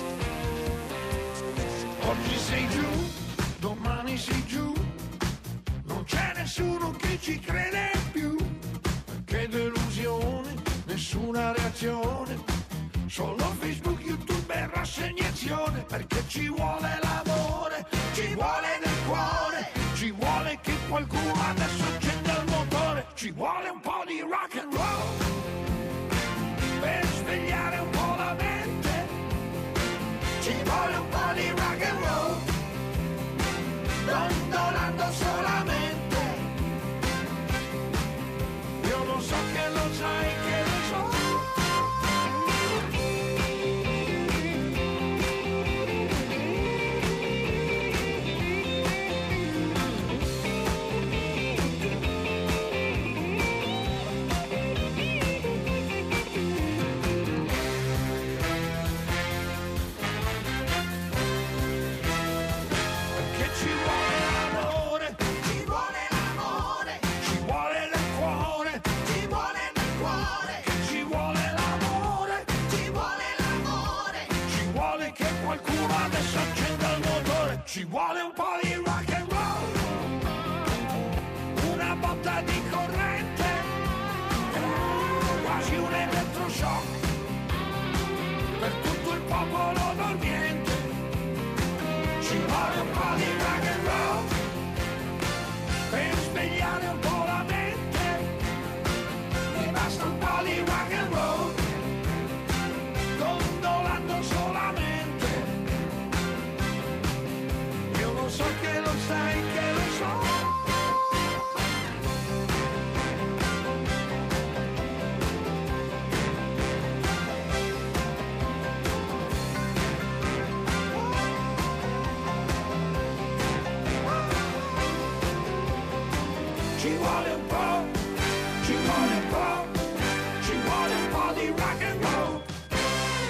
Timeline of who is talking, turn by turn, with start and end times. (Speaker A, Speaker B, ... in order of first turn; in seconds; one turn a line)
Speaker A: 2.0-4.9
Speaker A: 5.8-8.6
Speaker A: 9.2-12.4
Speaker A: 13.1-25.3
Speaker A: 26.8-29.1
Speaker A: 30.4-32.5
Speaker A: 34.0-36.5
Speaker A: 38.8-41.5
Speaker A: 63.1-79.8
Speaker A: 80.7-83.7
Speaker A: 84.3-87.0
Speaker A: 88.6-91.0
Speaker A: 92.2-94.3
Speaker A: 95.9-98.3
Speaker A: 99.5-101.6
Speaker A: 103.1-105.6
Speaker A: 107.9-110.5
Speaker A: 126.8-128.0
Speaker A: 128.6-129.8
Speaker A: 130.4-132.5